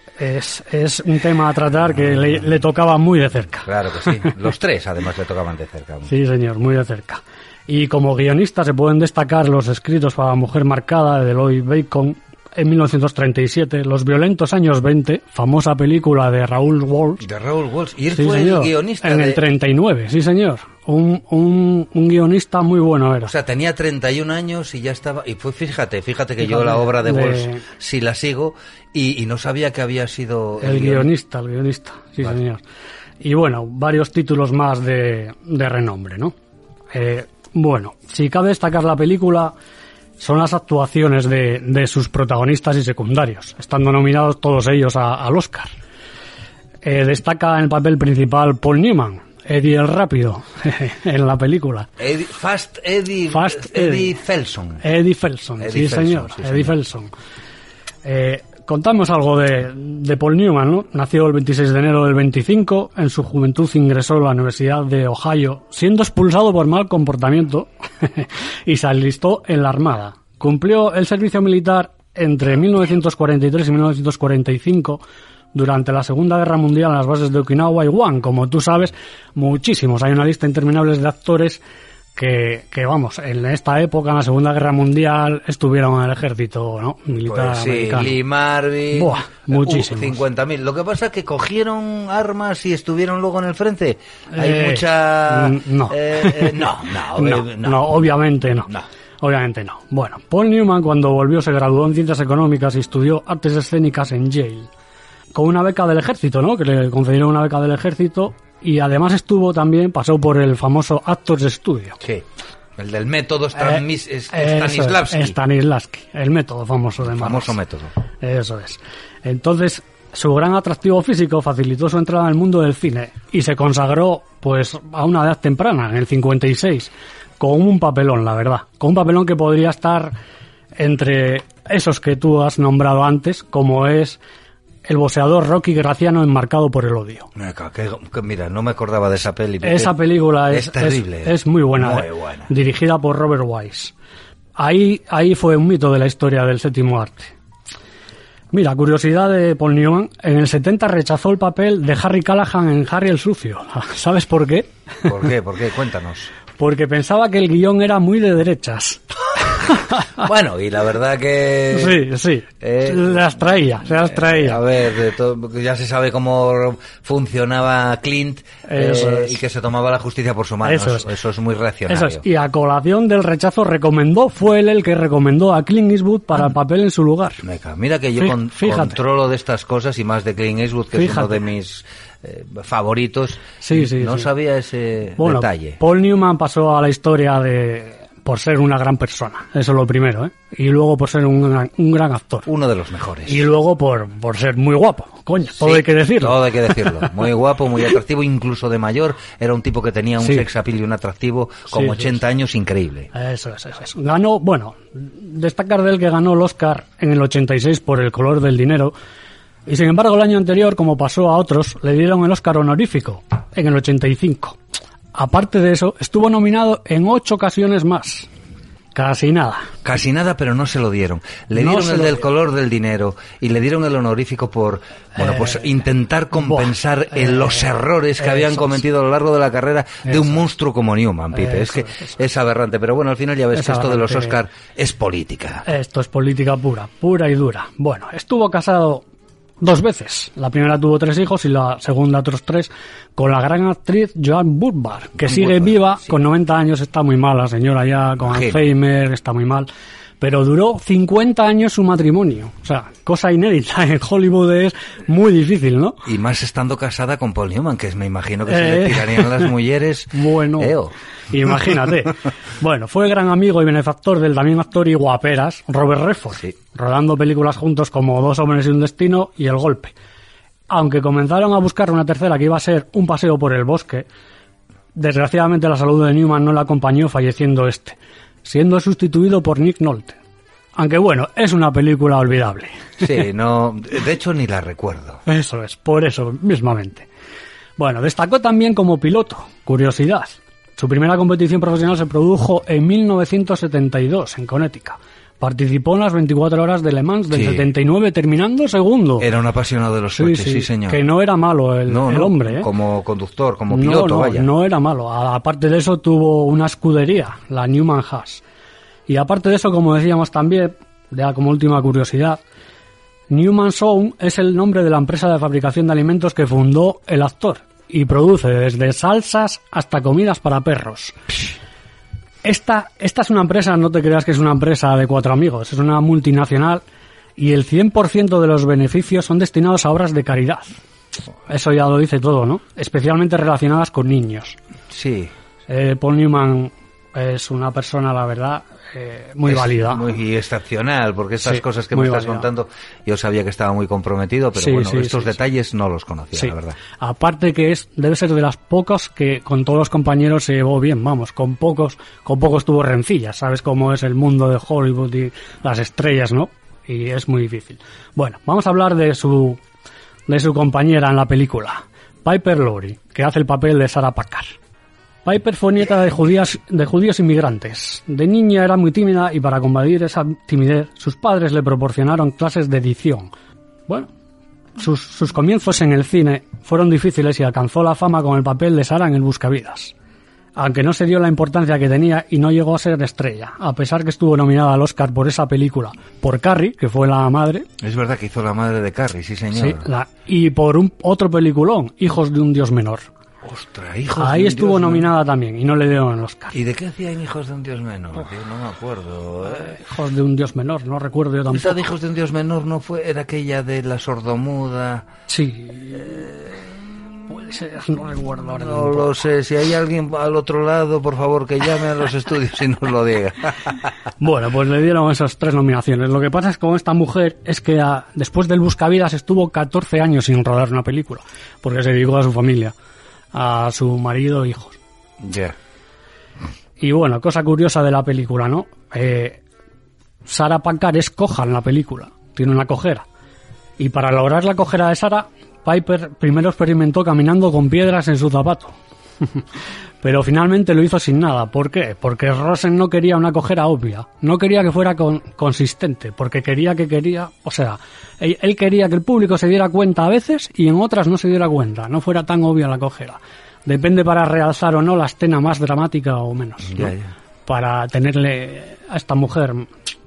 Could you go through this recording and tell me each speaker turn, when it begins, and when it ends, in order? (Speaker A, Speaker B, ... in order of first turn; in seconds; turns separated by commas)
Speaker A: 0.2-3.7, Speaker B: 3.7-6.1, Speaker A: 6.1-17.2, Speaker B: 17.2-19.4, Speaker A: 18.1-23.3, Speaker B: 23.3-31.1, Speaker A: 26.4-27.7, Speaker A: 30.6-32.6, Speaker A: 33.2-36.4, Speaker A: 36.9-39.5, Speaker A: 40.2-45.7, Speaker A: 46.8-51.9, Speaker B: 52.0-54.8, Speaker A: 53.3-54.1, Speaker A: 54.8-57.1, Speaker B: 55.6-56.7, Speaker A: 58.0-75.0, Speaker A: 75.5-81.6, Speaker A: 82.2-88.2, Speaker B: 87.3-97.9, Speaker A: 88.9-90.2, Speaker A: 94.3-96.6, Speaker A: 97.2-98.7, Speaker A: 99.2-104.7, Speaker A: 105.3-112.0, Speaker B: 112.0-112.2, Speaker B: 112.8-115.4, Speaker A: 113.6-117.6, Speaker B: 117.0-117.9, Speaker A: 118.2-130.2, Speaker A: 130.8-134.2, Speaker A: 134.8-137.3, Speaker B: 137.3-142.5, Speaker A: 139.6-143.9, Speaker A: 144.6-147.3, Speaker A: 148.5-154.7, Speaker B: 155.1-156.3, Speaker A: 156.6-160.1, Speaker B: 160.2-162.0, Speaker A: 161.7-164.6, Speaker B: 162.6-172.2, Speaker A: 168.7-169.4, Speaker A: 170.6-171.1, Speaker A: 171.9-177.4, Speaker B: 177.4-185.8, Speaker A: 178.2-179.0, Speaker A: 180.9-181.4, Speaker A: 183.6-184.3, Speaker A: 185.2-192.5, Speaker B: 192.5-193.5, Speaker A: 193.3-197.1, Speaker B: 195.6-203.1, Speaker A: 200.2-200.5, Speaker A: 201.7-202.1, Speaker A: 203.1-208.9, Speaker A: 209.7-214.6, Speaker A: 215.2-218.3, Speaker A: 218.9-219.7, Speaker B: 219.8-235.7, Speaker A: 221.5-222.3, Speaker A: 225.2-225.7, Speaker A: 226.3-228.8, Speaker A: 230.1-230.4, Speaker A: 231.3-232.2, Speaker A: 233.6-234.4, Speaker A: 235.7-239.1, Speaker A: 239.6-249.7, Speaker B: 245.2-246.1, Speaker B: 248.3-248.7, Speaker A: 250.2-256.0, Speaker B: 256.1-260.9, Speaker A: 258.5-259.5, Speaker A: 260.1-260.8, Speaker A: 261.3-269.9, Speaker A: 270.7-274.1, Speaker A: 274.9-280.2, Speaker A: 280.8-283.1, Speaker B: 283.0-285.2, Speaker A: 285.3-287.1, Speaker A: 287.8-299.3, Speaker B: 297.3-297.7, Speaker B: 299.2-301.0, Speaker A: 300.1-302.7, Speaker B: 301.9-304.5, Speaker A: 303.7-308.4, Speaker A: 309.1-312.4, Speaker A: 313.3-321.3, Speaker A: 322.4-326.8, Speaker A: 327.4-330.7, Speaker A: 331.5-334.6, Speaker B: 334.9-335.3, Speaker A: 335.7-340.1, Speaker B: 339.5-346.8, Speaker A: 341.4-342.5, Speaker A: 344.6-345.3, Speaker A: 346.4-359.6, Speaker A: 360.3-364.5, Speaker A: 365.2-373.3, Speaker A: 374.8-379.9, Speaker A: 380.6-387.7, Speaker B: 387.8-389.9, Speaker A: 389.5-393.1, Speaker B: 393.4-395.1, Speaker A: 394.2-396.6, Speaker B: 396.5-399.8, Speaker A: 399.5-401.8, Speaker B: 401.5-405.1, Speaker A: 405.3-406.3, Speaker A: 407.3-409.2, Speaker B: 408.4-413.9, Speaker A: 414.2-422.8, Speaker A: 423.3-424.8, Speaker B: 425.2-425.6, Speaker A: 426.8-429.4, Speaker A: 430.3-433.1, Speaker A: 433.8-438.7, Speaker A: 440.0-456.9, Speaker B: 456.6-457.1, Speaker A: 457.5-459.7